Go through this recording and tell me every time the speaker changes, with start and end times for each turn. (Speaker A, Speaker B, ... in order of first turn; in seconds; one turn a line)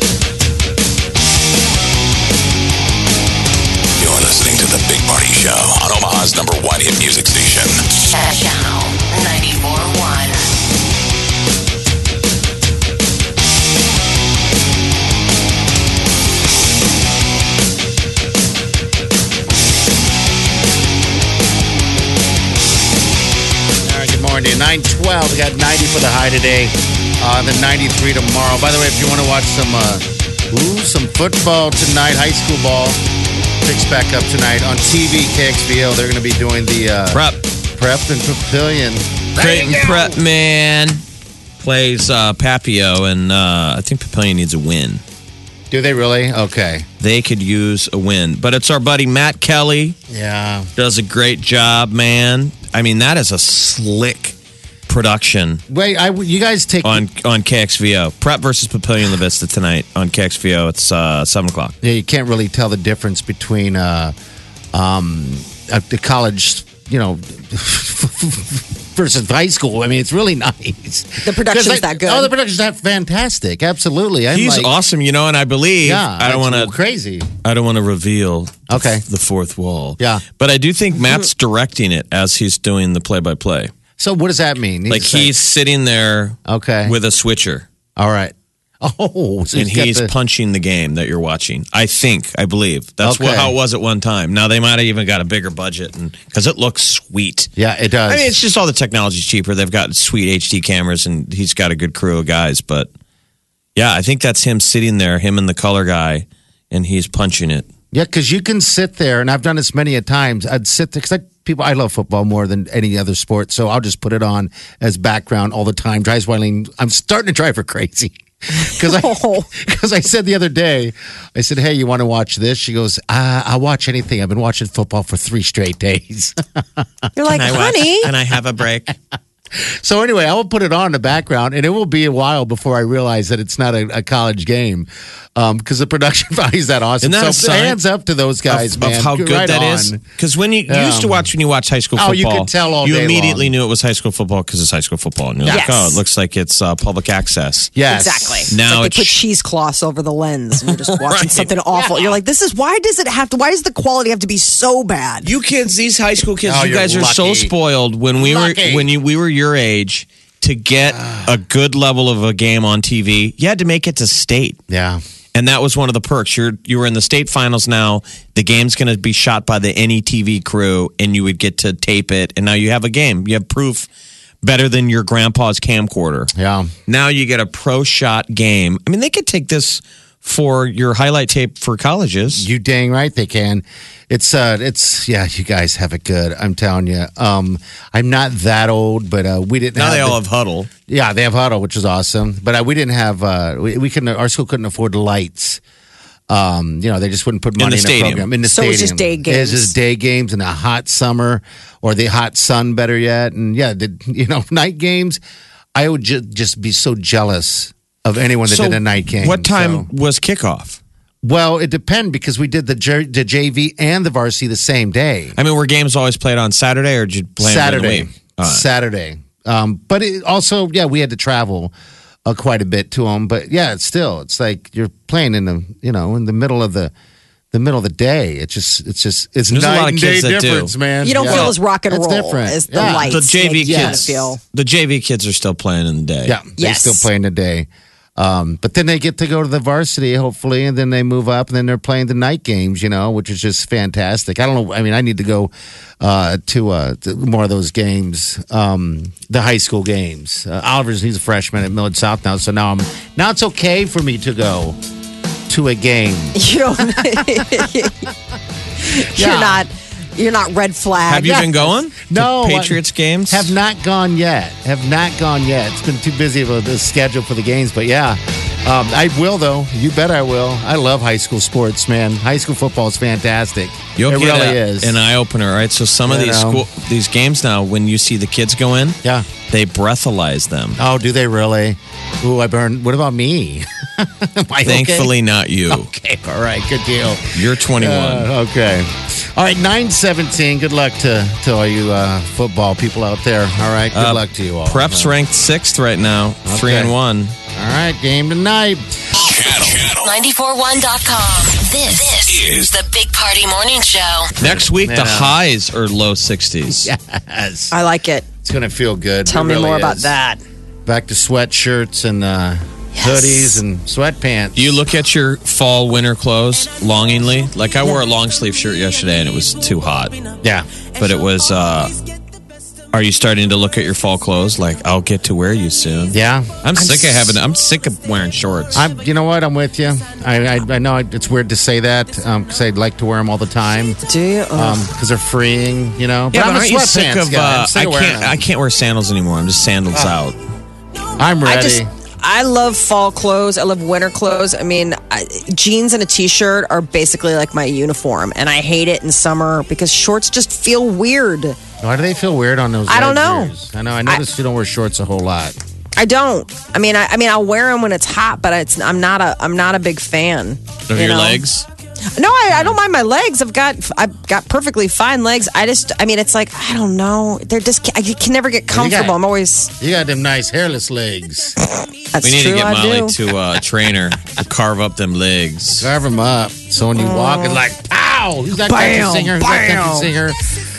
Speaker A: 4.0-7.8
Speaker B: 8.1-10.4
Speaker C: 23.8-33.0
Speaker C: 33.6-40.1
Speaker D: 37.1-37.4
Speaker D: 39.4-41.0
Speaker D: 41.6-45.0
Speaker C: 45.7-46.9
Speaker D: 47.0-50.0
Speaker C: 50.1-50.7
Speaker D: 50.8-54.3
Speaker D: 54.9-55.6
Speaker C: 55.7-57.0
Speaker D: 56.8-61.7
Speaker C: 61.8-64.1
Speaker C: 64.7-74.7
Speaker E: 71.2-72.3
Speaker D: 74.3-76.7
Speaker C: 75.8-77.3
Speaker D: 77.4-83.7
Speaker C: 78.7-79.0
Speaker C: 80.0-80.2
Speaker C: 84.0-85.3
Speaker D: 84.9-87.7
Speaker C: 86.5-87.0
Speaker C: 88.0-90.1
Speaker D: 89.5-97.5
Speaker C: 93.0-93.5
Speaker C: 97.6-98.4
Speaker D: 98.0-102.9
Speaker D: 103.8-107.7
Speaker C: 107.9-126.8
Speaker E: 118.6-119.5
Speaker E: 127.2-128.1
Speaker D: 127.3-128.9
Speaker C: 129.6-140.1
Speaker D: 137.0-137.8
Speaker D: 138.4-147.7
Speaker C: 140.7-141.3
Speaker C: 141.9-143.5
Speaker E: 145.5-146.0
Speaker C: 147.7-148.4
Speaker E: 147.9-155.3
Speaker D: 148.5-149.2
Speaker D: 150.8-151.5
Speaker C: 151.7-152.1
Speaker D: 155.2-164.6
Speaker C: 156.4-157.5
Speaker C: 158.1-158.9
Speaker C: 160.9-161.3
Speaker C: 164.7-165.0
Speaker D: 165.3-173.9
Speaker D: 174.4-176.3
Speaker C: 176.3-176.7
Speaker D: 176.9-182.5
Speaker C: 182.3-190.2
Speaker D: 189.7-190.7
Speaker C: 190.9-195.6
Speaker C: 196.3-205.2
Speaker D: 197.6-198.3
Speaker E: 198.4-199.7
Speaker C: 205.7-209.9
Speaker D: 208.4-210.8
Speaker C: 211.2-215.4
Speaker D: 215.3-218.7
Speaker C: 217.4-221.7
Speaker C: 222.2-226.9
Speaker C: 227.5-234.1
Speaker D: 229.5-230.7
Speaker E: 231.0-234.4
Speaker D: 231.3-231.5
Speaker D: 232.8-236.3
Speaker C: 236.2-254.8
Speaker E: 236.6-237.1
Speaker C: 255.5-257.6
Speaker E: 256.4-258.1
Speaker E: 258.8-261.4
Speaker C: 258.9-259.6
Speaker D: 261.1-263.5
Speaker C: 261.2-275.0
Speaker D: 273.9-279.0
Speaker C: 276.1-276.6
Speaker D: 279.5-280.8
Speaker C: 280.8-285.1
Speaker D: 284.6-285.9
Speaker C: 285.7-295.1
Speaker D: 287.3-288.3
Speaker D: 293.9-297.3
Speaker C: 296.4-296.9
Speaker C: 297.5-298.8
Speaker A: 299.2-300.1
Speaker C: 299.4-299.9
Speaker B: 299.9-304.3
Speaker A: 302.3-302.7
Speaker D: 304.4-306.9
Speaker C: 304.4-305.4
Speaker C: 306.7-307.7
Speaker E: 307.7-308.3
Speaker C: 308.4-310.3
Speaker E: 309.2-310.4
Speaker C: 310.9-314.8
Speaker E: 313.0-313.6
Speaker D: 314.5-320.2
Speaker D: 321.0-321.9
Speaker D: 322.9-328.9
Speaker C: 326.1-326.6
Speaker E: 326.8-327.3
Speaker C: 328.7-334.0
Speaker E: 334.0-334.9
Speaker C: 334.5-338.4
Speaker D: 336.3-340.4
Speaker C: 341.2-341.9
Speaker E: 341.4-351.6
Speaker C: 351.8-355.6
Speaker E: 352.9-353.5
Speaker E: 356.0-361.4
Speaker D: 360.9-361.6
Speaker E: 362.1-369.7
Speaker C: 368.7-369.2
Speaker C: 369.8-371.5
Speaker E: 372.1-373.1
Speaker D: 372.2-375.9
Speaker C: 375.8-380.4
Speaker E: 376.9-377.6
Speaker E: 378.6-380.1